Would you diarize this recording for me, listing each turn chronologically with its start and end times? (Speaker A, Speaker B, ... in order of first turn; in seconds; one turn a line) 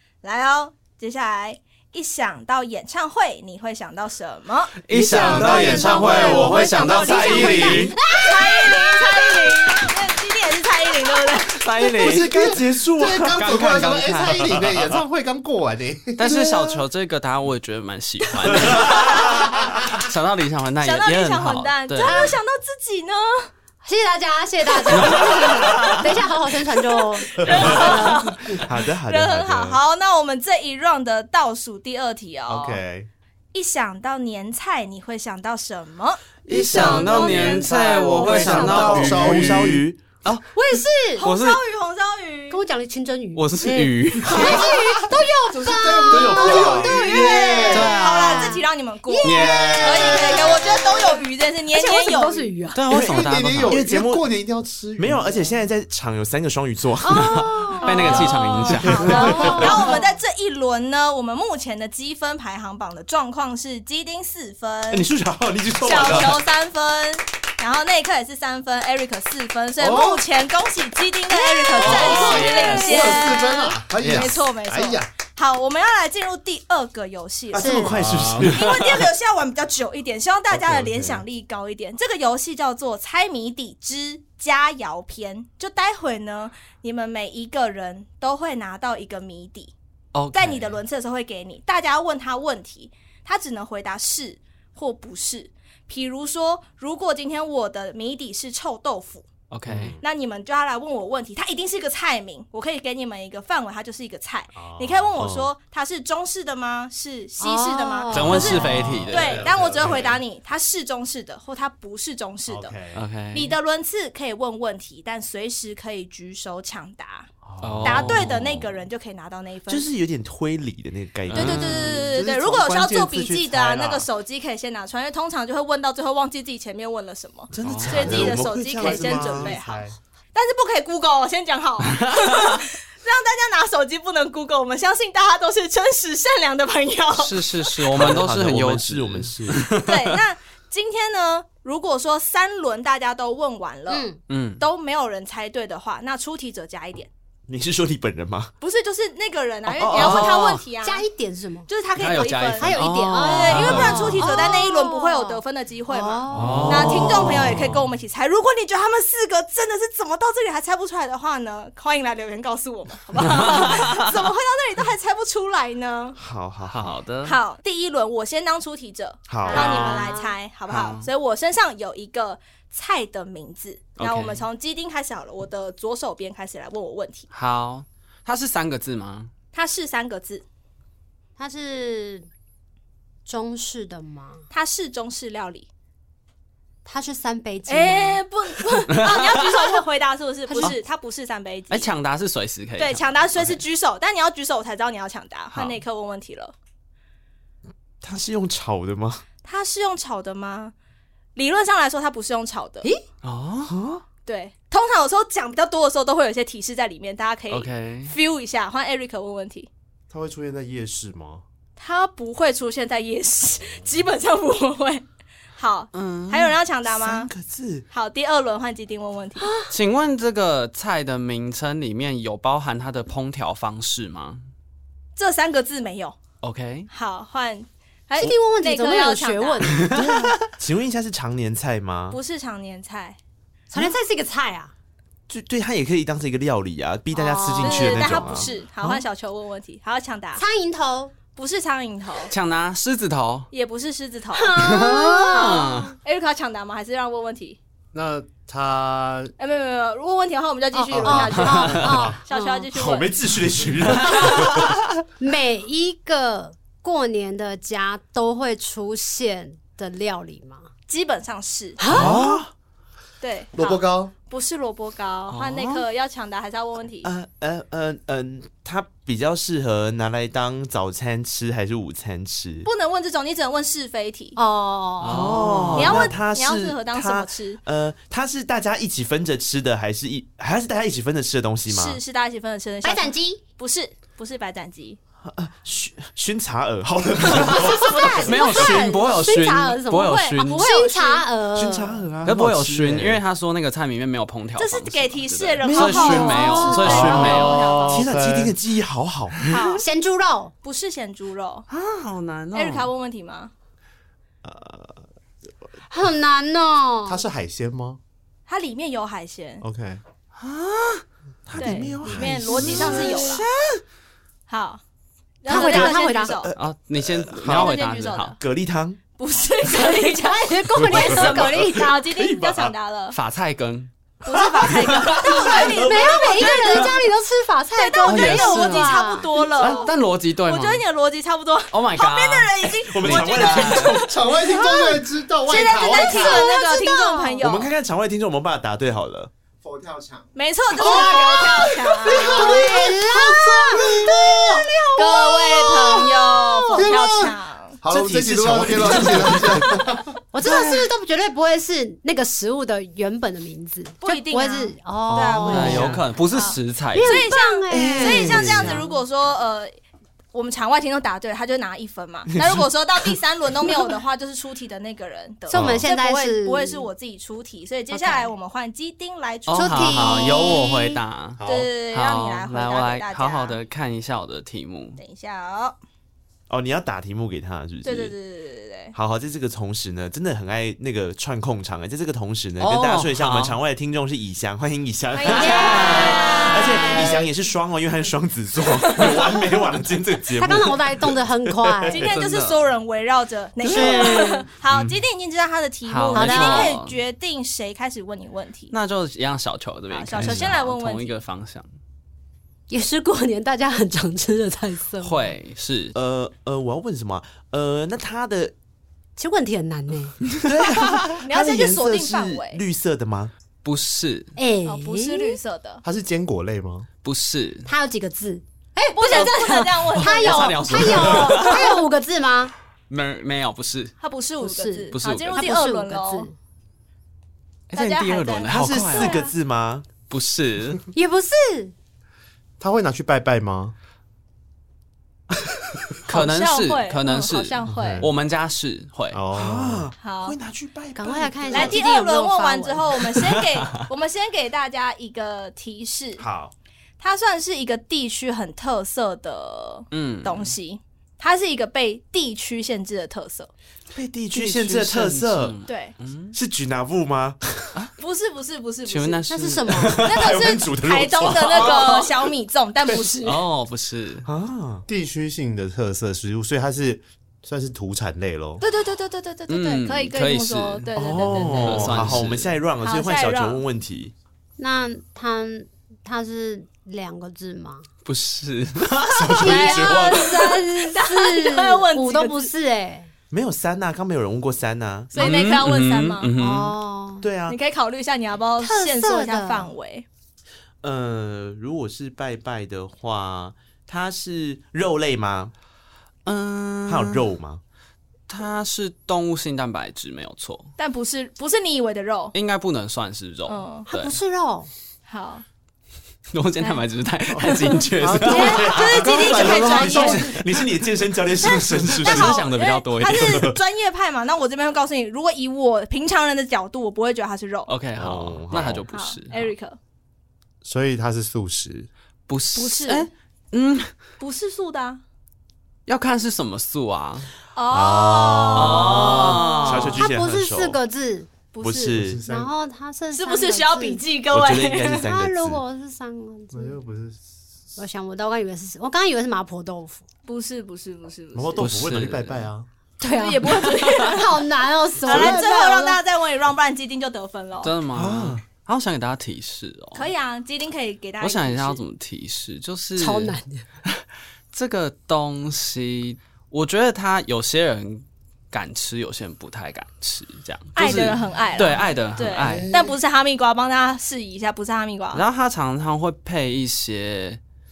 Speaker A: 0.2-4.8
Speaker B: 4.8-8.2
Speaker C: 4.9-7.9
Speaker D: 5.1-8.0
Speaker A: 5.7-11.7
Speaker E: 8.0-9.8
Speaker B: 11.5-12.3
Speaker D: 12.0-13.8
Speaker C: 12.0-16.8
Speaker B: 13.4-14.6
Speaker D: 14.3-14.8
Speaker B: 16.2-22.3
Speaker A: 18.9-19.4
Speaker A: 20.8-23.5
Speaker E: 22.0-22.3
Speaker E: 23.8-28.3
Speaker D: 25.7-26.0
Speaker A: 27.1-32.8
Speaker D: 28.6-29.8
Speaker C: 32.5-33.1
Speaker A: 33.5-38.2
Speaker B: 36.5-39.7
Speaker C: 36.5-39.9
Speaker E: 36.7-37.6
Speaker E: 38.1-38.9
Speaker D: 38.2-40.0
Speaker E: 40.5-41.3
Speaker A: 41.2-42.6
Speaker B: 41.2-41.6
Speaker E: 42.5-47.8
Speaker B: 43.4-44.6
Speaker C: 44.3-44.6
Speaker A: 44.4-44.7
Speaker C: 45.5-48.0
Speaker D: 46.1-46.9
Speaker A: 46.2-52.5
Speaker B: 47.7-48.6
Speaker E: 48.3-52.8
Speaker B: 49.2-50.3
Speaker C: 49.4-50.4
Speaker B: 52.8-53.9
Speaker D: 52.9-54.2
Speaker C: 52.9-55.5
Speaker D: 55.0-59.9
Speaker E: 57.0-60.1
Speaker B: 57.3-59.7
Speaker A: 57.8-65.1
Speaker C: 58.7-59.6
Speaker D: 64.9-66.5
Speaker A: 65.8-89.7
Speaker C: 69.8-70.2
Speaker B: 71.7-73.4
Speaker C: 71.8-75.1
Speaker D: 74.0-74.3
Speaker D: 77.5-78.8
Speaker E: 77.6-78.0
Speaker C: 77.9-78.5
Speaker C: 80.5-81.2
Speaker B: 90.1-90.8
Speaker A: 90.3-99.3
Speaker B: 99.5-100.0
Speaker C: 99.7-100.0
Speaker A: 100.0-112.8
Speaker C: 104.5-105.3
Speaker D: 105.2-105.5
Speaker E: 107.4-108.9
Speaker B: 108.1-109.5
Speaker C: 108.9-110.2
Speaker D: 109.0-110.1
Speaker C: 112.5-113.0
Speaker B: 112.9-113.6
Speaker A: 113.3-117.3
Speaker D: 117.5-118.7
Speaker C: 117.5-118.2
Speaker B: 117.6-118.4
Speaker A: 117.8-119.9
Speaker D: 119.7-122.1
Speaker B: 121.3-122.2
Speaker A: 121.3-138.0
Speaker C: 121.9-124.1
Speaker D: 127.5-129.5
Speaker B: 127.6-128.2
Speaker C: 127.9-130.0
Speaker B: 131.9-132.6
Speaker B: 137.1-140.2
Speaker D: 137.9-139.7
Speaker A: 139.8-147.1
Speaker E: 143.9-144.2
Speaker B: 144.3-144.6
Speaker D: 147.5-148.5
Speaker A: 148.6-151.1
Speaker D: 149.7-150.6
Speaker B: 149.9-150.6
Speaker E: 150.8-151.7
Speaker A: 151.7-166.2
Speaker B: 152.0-154.3
Speaker E: 152.6-156.7
Speaker B: 156.3-157.6
Speaker D: 156.4-157.8
Speaker B: 163.2-164.1
Speaker D: 166.2-167.0
Speaker B: 166.6-167.4
Speaker A: 167.2-177.3
Speaker D: 169.3-170.0
Speaker E: 169.4-170.3
Speaker B: 169.5-170.1
Speaker B: 170.7-171.1
Speaker B: 174.0-174.4
Speaker B: 177.3-179.3
Speaker A: 179.5-180.4
Speaker E: 181.4-182.3
Speaker E: 183.3-184.4
Speaker A: 184.5-185.7
Speaker E: 186.8-188.2
Speaker A: 187.7-191.9
Speaker B: 188.9-189.8
Speaker E: 190.5-190.8
Speaker B: 191.7-193.6
Speaker A: 192.8-196.5
Speaker B: 195.5-195.8
Speaker D: 198.0-199.2
Speaker A: 199.4-200.7
Speaker A: 201.3-202.9
Speaker B: 203.2-203.8
Speaker D: 203.7-204.0
Speaker A: 204.2-209.7
Speaker B: 207.5-208.1
Speaker C: 210.1-211.4
Speaker A: 211.8-215.1
Speaker A: 215.6-217.3
Speaker B: 215.9-216.6
Speaker D: 216.9-217.9
Speaker A: 217.9-219.5
Speaker E: 219.4-219.7
Speaker B: 219.7-224.4
Speaker A: 225.2-226.2
Speaker B: 226.4-226.9
Speaker A: 226.9-229.9
Speaker E: 228.2-229.9
Speaker B: 229.7-230.1
Speaker D: 229.9-232.2
Speaker A: 232.1-233.2
Speaker E: 233.7-234.7
Speaker D: 235.3-238.9
Speaker E: 237.1-238.1
Speaker A: 237.6-240.4
Speaker E: 240.4-241.1
Speaker A: 241.3-242.3
Speaker B: 242.3-243.5
Speaker A: 243.5-244.6
Speaker E: 244.3-245.9
Speaker B: 244.6-246.0
Speaker A: 246.0-247.6
Speaker C: 247.9-249.3
Speaker A: 249.4-253.2
Speaker E: 250.7-252.7
Speaker C: 250.9-252.2
Speaker B: 251.4-251.8
Speaker D: 252.7-254.9
Speaker E: 255.2-260.7
Speaker A: 260.9-262.2
Speaker E: 261.8-262.4
Speaker D: 261.9-262.5
Speaker A: 263.2-267.1
Speaker C: 263.5-264.1
Speaker B: 265.3-265.9
Speaker D: 267.0-272.7
Speaker A: 272.6-274.4
Speaker E: 274.4-275.5
Speaker B: 275.0-276.1
Speaker D: 275.1-282.0
Speaker A: 275.8-277.6
Speaker A: 281.7-285.0
Speaker E: 282.8-283.4
Speaker D: 285.3-288.3
Speaker A: 287.3-289.1
Speaker E: 287.4-292.1
Speaker B: 288.2-290.7
Speaker A: 290.0-291.4
Speaker D: 291.5-293.2
Speaker B: 292.2-298.0
Speaker A: 294.6-298.1
Speaker D: 295.6-299.5
Speaker E: 296.1-297.0
Speaker C: 297.9-298.6
Speaker A: 299.4-299.9
Speaker E: 299.8-300.5
Speaker A: 300.6-301.7
Speaker B: 301.7-302.9
Speaker A: 302.5-303.5
Speaker C: 304.4-305.0
Speaker E: 305.9-307.2
Speaker C: 307.1-308.0
Speaker A: 308.5-309.6
Speaker C: 309.6-310.0
Speaker B: 310.4-311.0
Speaker D: 311.5-313.4
Speaker C: 311.6-313.0
Speaker A: 311.6-313.5
Speaker B: 312.8-313.4
Speaker A: 314.5-314.8
Speaker A: 315.4-316.6
Speaker E: 315.5-316.4
Speaker D: 315.5-317.7
Speaker B: 316.6-318.4
Speaker A: 317.4-318.4
Speaker D: 318.4-319.0
Speaker A: 319.1-323.2
Speaker E: 319.7-322.0
Speaker D: 320.8-322.7
Speaker B: 323.1-323.9
Speaker A: 324.2-327.0
Speaker D: 324.3-326.8
Speaker B: 324.9-325.2
Speaker E: 325.2-329.5
Speaker A: 327.8-337.7
Speaker B: 328.0-330.8
Speaker B: 331.7-334.0
Speaker D: 332.9-334.1
Speaker C: 334.0-336.5
Speaker E: 335.9-337.4
Speaker D: 337.4-339.3
Speaker C: 339.6-340.3
Speaker A: 340.3-342.7
Speaker E: 340.7-346.9
Speaker C: 341.0-344.7
Speaker A: 344.9-347.8
Speaker C: 346.7-350.1
Speaker D: 347.9-349.8
Speaker E: 350.3-356.0
Speaker B: 350.4-350.9
Speaker A: 354.0-359.7
Speaker B: 355.1-357.3
Speaker E: 356.9-358.4
Speaker D: 357.7-358.9
Speaker A: 360.3-370.9
Speaker D: 362.3-362.6
Speaker E: 365.5-366.9
Speaker D: 365.5-365.9
Speaker E: 367.9-368.3
Speaker B: 369.5-375.0
Speaker E: 369.5-371.0
Speaker C: 371.4-371.7
Speaker A: 371.4-373.6
Speaker A: 375.0-375.8
Speaker D: 376.5-378.1
Speaker A: 377.8-378.9
Speaker D: 378.9-392.3
Speaker B: 382.6-383.6
Speaker E: 385.2-387.2
Speaker A: 385.3-387.2
Speaker B: 385.5-386.2
Speaker A: 388.8-389.4
Speaker E: 390.4-392.1
Speaker A: 391.9-398.7
Speaker B: 392.1-392.6
Speaker E: 393.6-394.4
Speaker B: 393.6-394.4
Speaker D: 394.7-395.0
Speaker B: 395.9-397.0
Speaker E: 396.1-396.8
Speaker B: 398.7-401.7
Speaker A: 399.9-401.1
Speaker D: 400.2-400.6
Speaker E: 402.7-405.3
Speaker B: 405.0-405.9
Speaker D: 405.9-408.5
Speaker E: 409.2-410.2
Speaker D: 410.4-413.3
Speaker A: 411.2-412.6
Speaker B: 413.6-414.3
Speaker E: 414.4-415.4
Speaker A: 414.6-415.8
Speaker C: 415.8-416.9
Speaker B: 417.0-417.7
Speaker E: 417.7-422.5
Speaker A: 418.9-421.7
Speaker B: 419.1-421.8
Speaker B: 422.9-423.9
Speaker A: 424.0-426.3
Speaker E: 424.4-426.3
Speaker B: 424.9-425.4
Speaker B: 427.7-429.2
Speaker A: 427.7-429.3
Speaker D: 428.5-429.9
Speaker B: 430.1-430.8
Speaker E: 430.9-431.7
Speaker C: 432.6-433.8
Speaker B: 436.1-439.2
Speaker A: 436.1-438.1
Speaker C: 437.7-438.1
Speaker C: 439.1-439.9
Speaker D: 439.3-441.8
Speaker A: 440.0-440.4
Speaker E: 440.9-443.1
Speaker A: 441.5-446.2
Speaker B: 443.1-443.9
Speaker D: 446.2-446.5
Speaker A: 447.0-453.5
Speaker B: 449.9-450.6
Speaker D: 453.9-455.6
Speaker B: 454.3-456.4
Speaker A: 455.7-456.0
Speaker D: 456.3-457.7
Speaker A: 458.0-459.2
Speaker B: 458.9-460.2
Speaker E: 459.3-460.0
Speaker A: 460.0-463.4
Speaker D: 460.0-462.1
Speaker B: 461.5-462.1
Speaker B: 463.0-464.3
Speaker D: 464.2-464.9
Speaker C: 464.9-468.6
Speaker A: 468.6-472.2
Speaker B: 469.5-472.6
Speaker D: 471.0-474.1
Speaker A: 472.8-473.6
Speaker E: 474.6-477.9
Speaker B: 478.1-479.7
Speaker D: 479.1-480.5
Speaker E: 479.4-483.1
Speaker A: 479.4-482.5
Speaker D: 483.3-485.2
Speaker A: 485.1-486.3
Speaker B: 485.1-486.8
Speaker E: 486.4-487.3
Speaker D: 487.2-487.6
Speaker A: 487.5-490.1
Speaker E: 488.6-489.7
Speaker D: 490.8-495.5
Speaker B: 496.3-497.3
Speaker D: 496.9-497.6
Speaker B: 498.3-500.7
Speaker A: 500.8-502.4
Speaker B: 502.3-504.1
Speaker A: 503.5-503.9
Speaker E: 503.9-504.7
Speaker A: 505.1-505.4
Speaker B: 506.3-508.7
Speaker C: 507.4-510.3
Speaker A: 508.3-510.3
Speaker D: 508.3-512.5
Speaker A: 511.4-517.8
Speaker B: 511.5-513.5
Speaker D: 513.1-513.6
Speaker B: 517.7-519.5
Speaker D: 518.0-518.9
Speaker A: 518.9-519.8
Speaker C: 520.6-521.9
Speaker B: 522.3-523.9
Speaker A: 522.5-523.1
Speaker A: 524.2-525.0
Speaker B: 525.9-527.3
Speaker A: 527.6-529.7
Speaker C: 527.7-529.2
Speaker B: 528.5-530.1
Speaker D: 529.1-530.8
Speaker E: 529.3-531.3
Speaker A: 531.5-532.0
Speaker D: 531.6-532.2
Speaker C: 531.9-532.5
Speaker E: 532.2-534.0
Speaker A: 533.1-535.1
Speaker D: 534.3-535.6
Speaker E: 535.0-536.8
Speaker C: 536.5-537.2
Speaker E: 537.8-540.0
Speaker A: 540.3-541.6
Speaker D: 541.4-542.0
Speaker C: 541.4-542.7
Speaker B: 541.6-542.5
Speaker E: 543.0-546.0
Speaker A: 543.1-544.4
Speaker A: 545.0-547.8
Speaker B: 547.6-550.1
Speaker D: 547.9-548.4
Speaker A: 549.9-551.8
Speaker B: 551.2-562.7
Speaker E: 553.0-553.6
Speaker A: 560.8-565.2
Speaker C: 562.4-562.8
Speaker B: 565.1-567.4